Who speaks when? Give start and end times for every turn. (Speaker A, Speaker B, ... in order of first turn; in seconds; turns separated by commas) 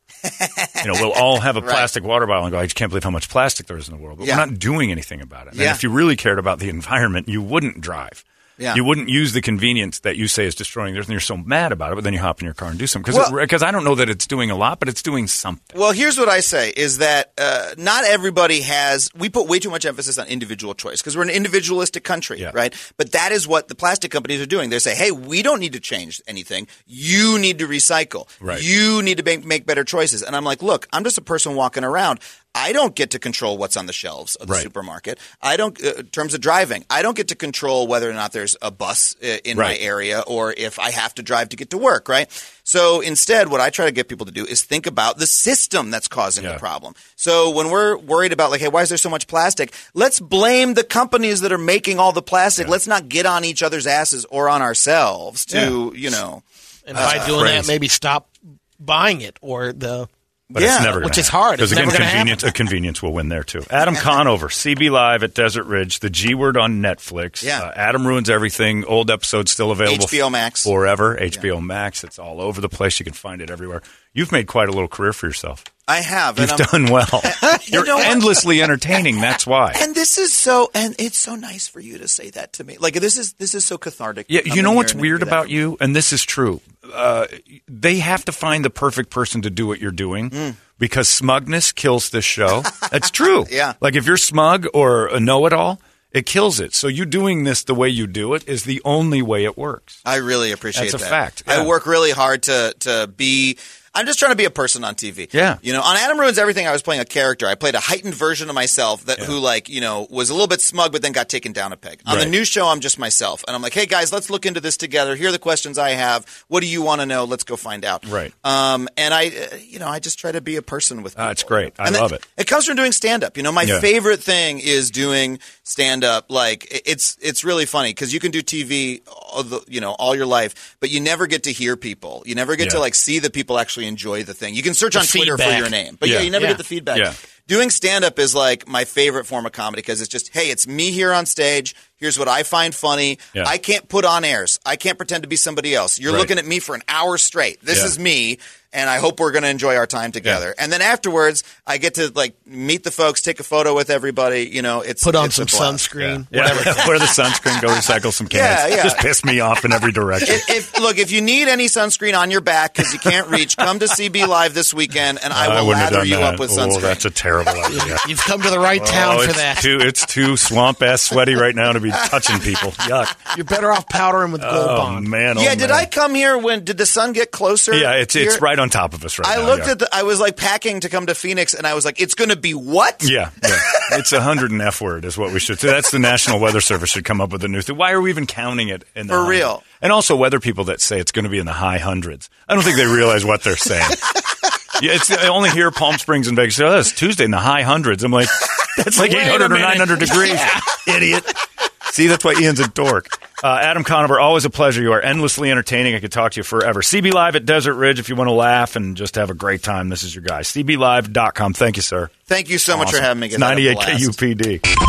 Speaker A: 0.2-1.9, Speaker B: 0.8-15.8, Speaker A: 4.2-4.5, Speaker A: 5.5-5.8, Speaker A: 15.7-56.4, Speaker B: 55.5-55.7, Speaker C: 56.9-60.1, Speaker A: 56.9-57.4, Speaker B: 57.0-57.7, Speaker A: 60.5-61.2, Speaker B: 60.5-75.6, Speaker C: 61.0-62.5, Speaker A: 69.8-70.7, Speaker A: 75.9-76.7, Speaker B: 76.4-79.8, Speaker A: 77.2-78.5, Speaker A: 79.7-85.6, Speaker B: 84.3-100.0, Speaker A: 90.3-90.6, Speaker A: 92.8-93.7, Speaker A: 100.0-155.8, Speaker B: 100.7-101.7, Speaker B: 105.3-105.6, Speaker B: 112.1-112.3, Speaker B: 118.0-118.3, Speaker B: 121.2-122.2, Speaker C: 134.9-135.7, Speaker B: 136.0-136.3, Speaker C: 136.3-136.6, Speaker C: 155.0-157.1, Speaker B: 156.0-160.5, Speaker A: 158.3-159.1, Speaker A: 160.2-167.0, Speaker B: 165.3-168.0, Speaker C: 167.7-169.8, Speaker B: 168.7-173.2, Speaker A: 172.1-172.5, Speaker C: 173.3-175.1, Speaker B: 174.4-175.9, Speaker A: 175.3-178.4, Speaker B: 177.7-179.7, Speaker A: 179.2-184.0, Speaker B: 183.0-194.2, Speaker A: 189.1-189.6, Speaker B: 194.8-212.1, Speaker A: 198.9-200.4, Speaker C: 199.5-200.7, Speaker A: 212.3-214.2, Speaker B: 212.7-214.6